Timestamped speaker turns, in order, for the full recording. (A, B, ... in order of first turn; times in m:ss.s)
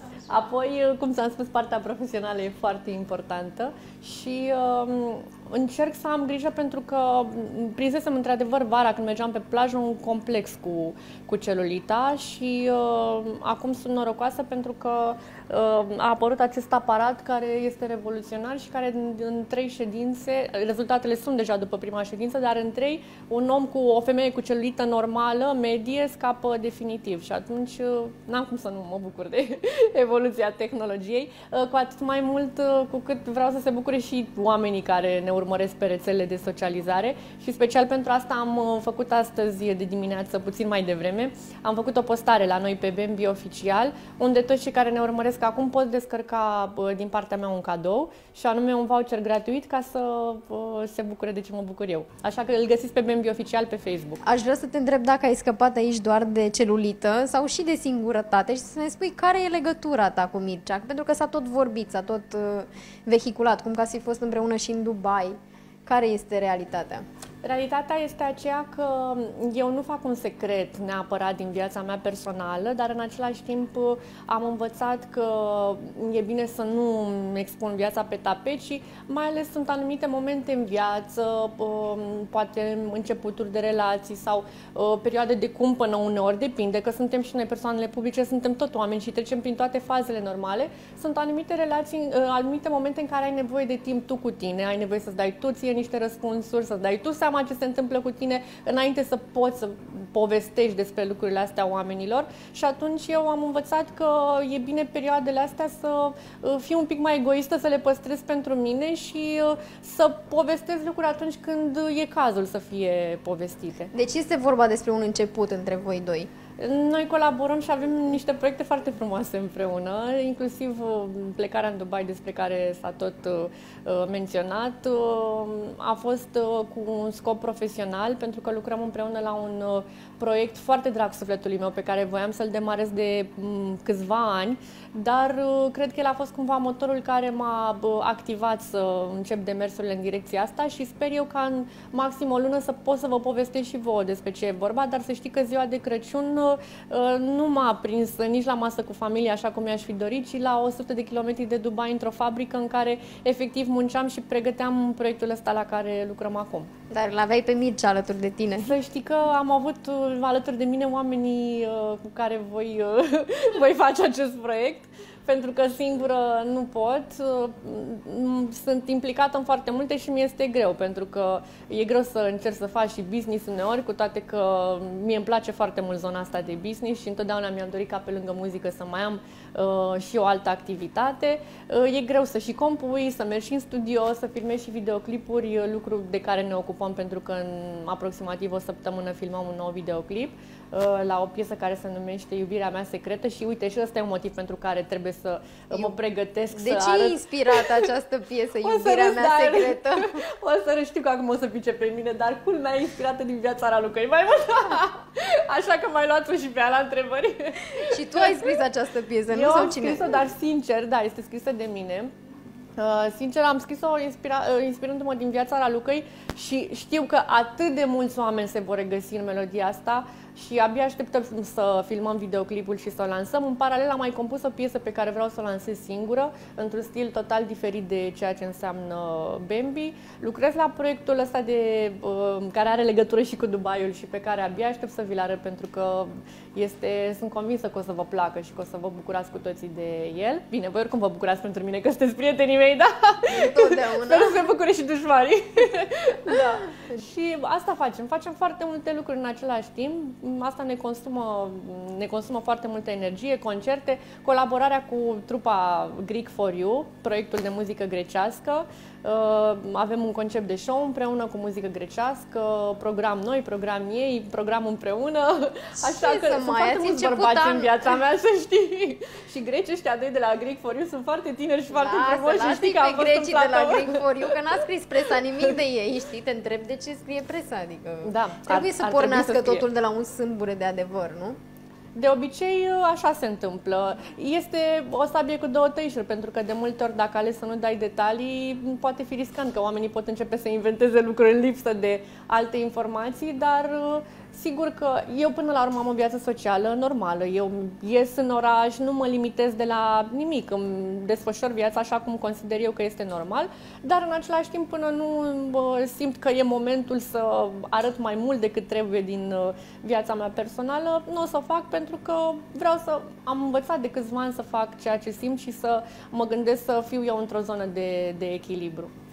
0:00.3-0:54.2 A
0:54.2-1:07.0 B
1:07.4-1:53.9 A
1:53.9-1:56.3 B
1:56.6-2:36.7 A
2:36.9-2:38.7 B
2:38.6-3:17.9 A
3:16.5-3:20.2 B
3:18.6-3:28.6 A
3:27.7-3:30.2 B
3:29.3-3:32.1 A
3:32.8-4:35.6 A
4:03.3-4:04.5 B
4:25.8-4:28.0 B
4:31.7-4:41.4 B
4:38.0-4:39.7 A
4:42.0-5:18.9 A